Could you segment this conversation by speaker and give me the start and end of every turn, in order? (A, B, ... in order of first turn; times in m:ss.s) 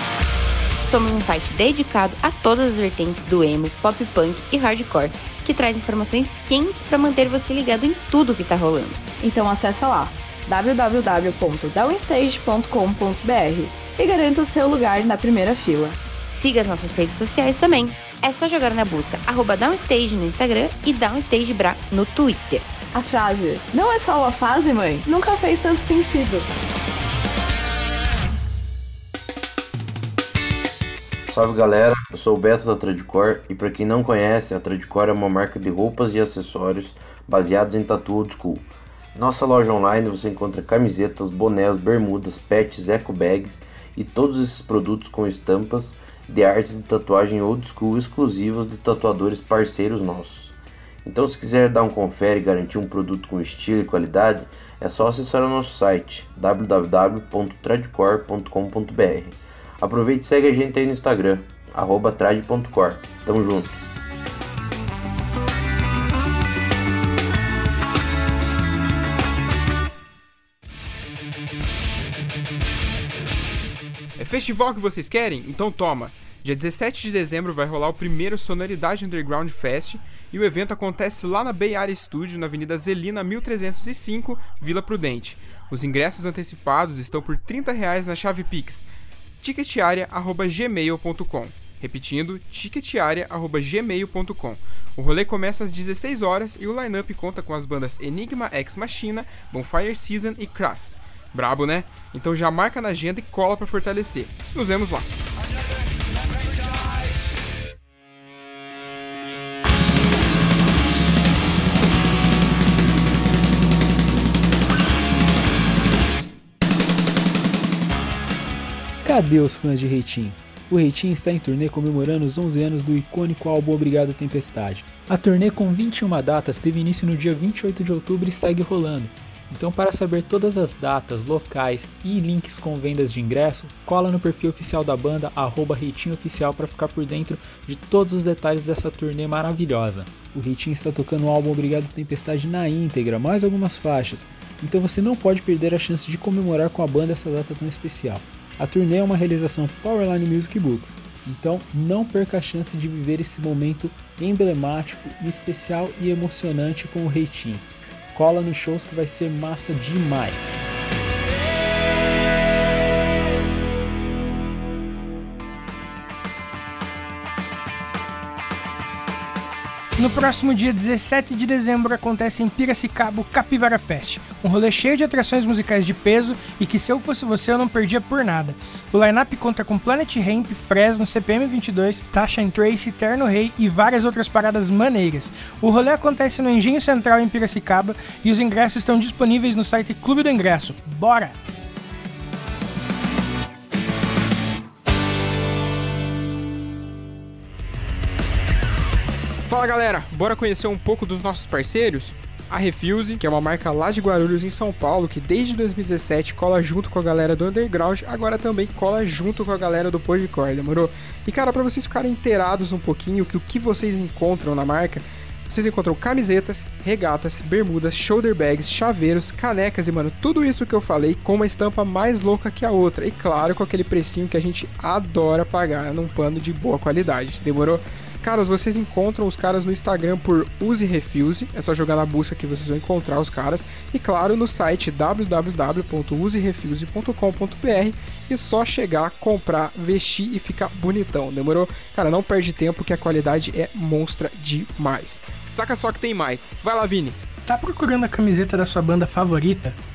0:00.8-0:09.0 A
0:09.2-0:16.0 B
0:16.2-0:22.7 A
0:22.9-0:26.5 B
0:31.3-1:03.8 C
1:14.2-1:28.9 D
1:29.4-1:45.1 D
1:59.0-2:40.6 E
2:50.0-3:11.4 F
3:19.4-4:07.2 D
4:07.5-4:09.8 F